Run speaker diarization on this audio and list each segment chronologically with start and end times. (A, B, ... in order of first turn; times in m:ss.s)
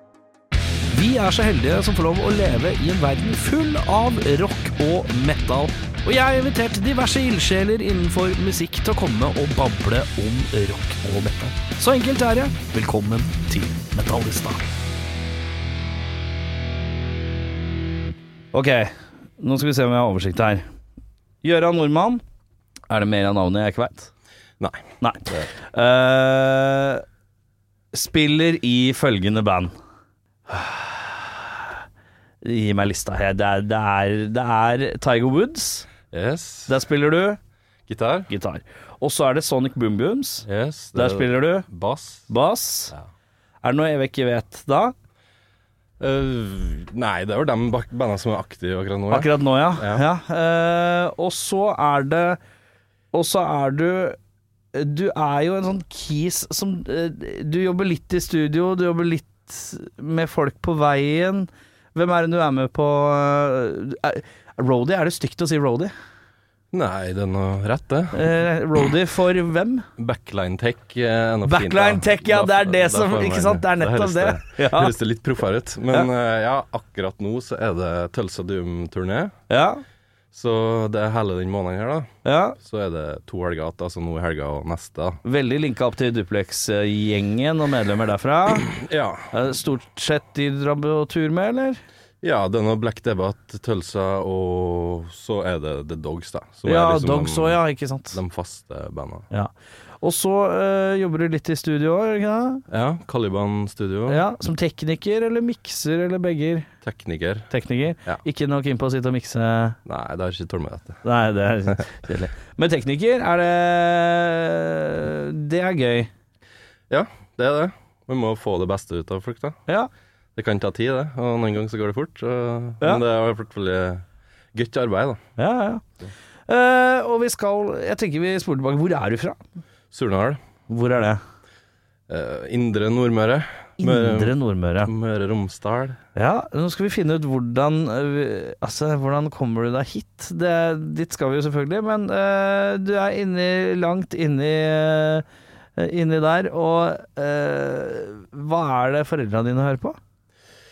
0:00.9-0:14.7 A
0:18.5-0:20.6 A
0:21.4-0:22.2 A
0:22.9-0:24.1 A
0:24.6-0:25.5 B
0:25.0-0:27.0 A
0:27.9-0:29.7 A
0:30.5-0:31.7 A
0:32.4-0:35.9 A
0:36.1-0:36.7 B
0:36.7-0:37.4 A
0:37.9-0:38.3 B
0:38.3-0:41.7 A
0:40.5-0:42.3 B
0:42.3-0:42.9 A
0:43.6-0:44.9 A
0:46.0-0:50.0 B
0:49.1-0:52.4 A
0:53.1-0:54.2 A
0:54.7-1:05.9 A
1:06.7-1:08.4 B
1:08.1-1:09.9 A
1:10.0-1:19.3 B
1:11.4-1:14.9 A
1:19.5-1:19.8 A
1:20.3-1:25.2 B
1:22.2-1:22.6 A
1:25.2-1:28.7 A
1:28.6-1:29.3 B
1:29.3-1:31.8 A
1:32.2-1:37.6 B
1:36.6-1:38.2 A
1:38.1-1:39.3 B
1:39.3-1:42.6 A
1:42.7-1:44.2 B
1:44.1-1:46.7 A
1:46.8-1:47.5 B
1:47.5-1:49.8 A
1:49.9-1:51.0 B
1:51.0-1:56.1 A
1:56.9-1:59.6 B
2:00.4-2:05.2 B
2:05.4-2:05.8 A
2:06.5-2:09.4 A
2:09.9-2:10.4 B
2:10.7-2:11.2 A
2:12.1-2:16.0 B
2:13.8-2:14.9 A
2:16.2-2:25.2 A
2:25.8-2:30.0 A